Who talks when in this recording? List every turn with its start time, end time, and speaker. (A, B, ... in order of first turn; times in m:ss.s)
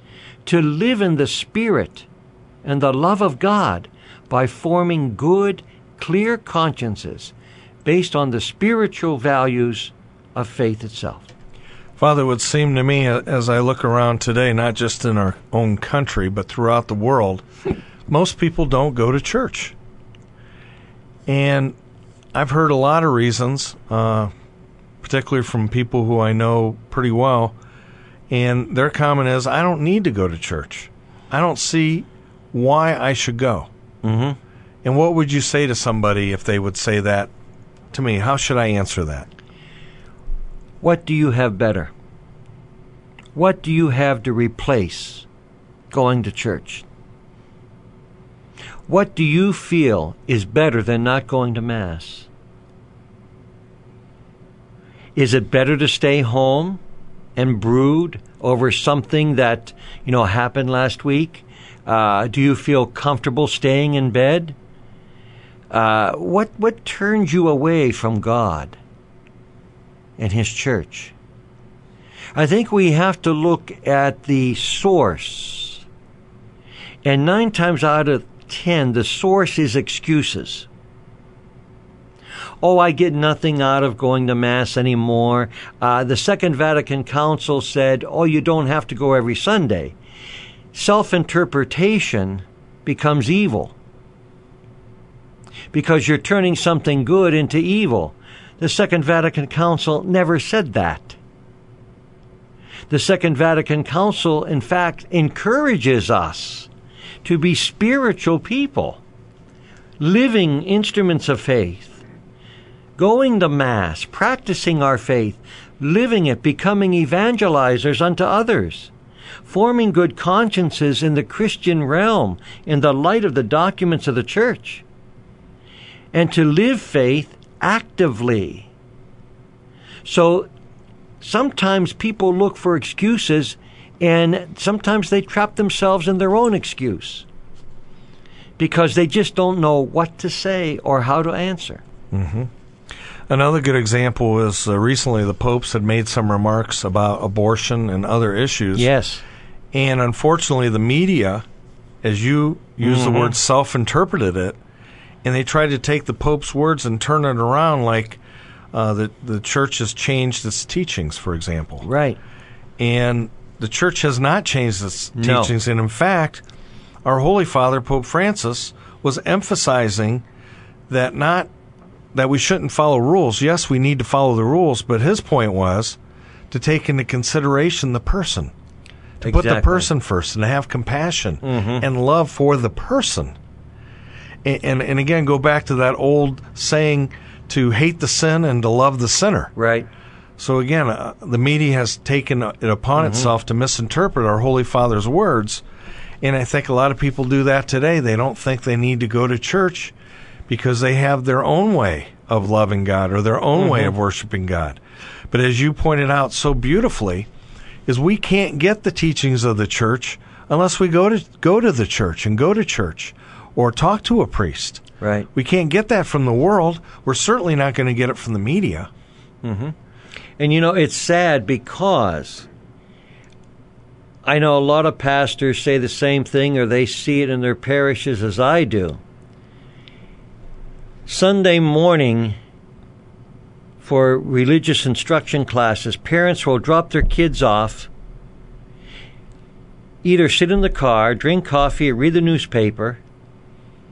0:00.4-0:02.1 A
0:02.6-0:07.3 A
0:07.8-0:11.3 A
0:12.0-0:17.4 B
0:18.1-0:19.7 B
0:21.3-0:21.7 B
0:22.3-0:24.3 B
0:25.0-0:27.5 B
0:28.3-0:33.7 B
0:34.0-0:34.4 A
0:34.8-0:37.3 B
0:37.9-0:39.3 B
0:40.8-0:41.9 A
0:43.3-0:45.2 A
0:45.9-0:46.8 A
0:48.9-0:52.3 A
0:55.2-0:56.8 A
0:57.4-1:04.5 A
1:05.7-1:08.8 A
1:10.2-1:11.1 A
1:12.3-1:15.8 A
1:17.0-1:20.7 A
1:22.6-1:29.9 A
1:30.7-1:33.7 A
1:35.7-1:41.2 A
1:42.9-1:46.7 A
1:47.2-1:49.0 A
1:50.0-1:52.0 A
1:53.0-1:58.9 A
1:59.4-2:04.8 A
2:06.1-2:08.7 A
2:10.0-2:10.4 A
2:11.2-2:17.2 A
2:18.6-2:21.8 A
2:22.1-2:22.5 B
2:23.3-2:28.9 B
2:28.8-2:29.2 A
2:29.7-2:31.4 B
2:32.0-2:34.6 B
2:32.8-2:33.3 A
2:35.2-2:38.2 B
2:38.7-2:41.9 B
2:41.8-2:42.2 A
2:42.8-2:46.4 B
2:45.2-2:45.5 A
2:47.0-2:50.2 B
2:50.9-2:51.5 B
2:52.1-2:56.0 B
2:56.5-2:58.5 B
2:59.2-2:59.9 A
2:59.2-3:03.4 B
3:01.4-3:01.8 A
3:04.4-3:09.5 B
3:09.6-3:09.9 A
3:10.4-3:15.6 B
3:13.0-3:13.2 A
3:16.2-3:19.9 B
3:20.5-3:27.3 B
3:23.6-3:23.9 A
3:27.8-3:34.8 B
3:35.0-3:35.3 A
3:35.3-3:38.9 B
3:39.4-3:39.7 A
3:40.4-3:42.5 A
3:44.2-3:49.0 A
3:51.0-3:52.3 A
3:53.8-3:57.9 A
4:00.0-4:03.0 A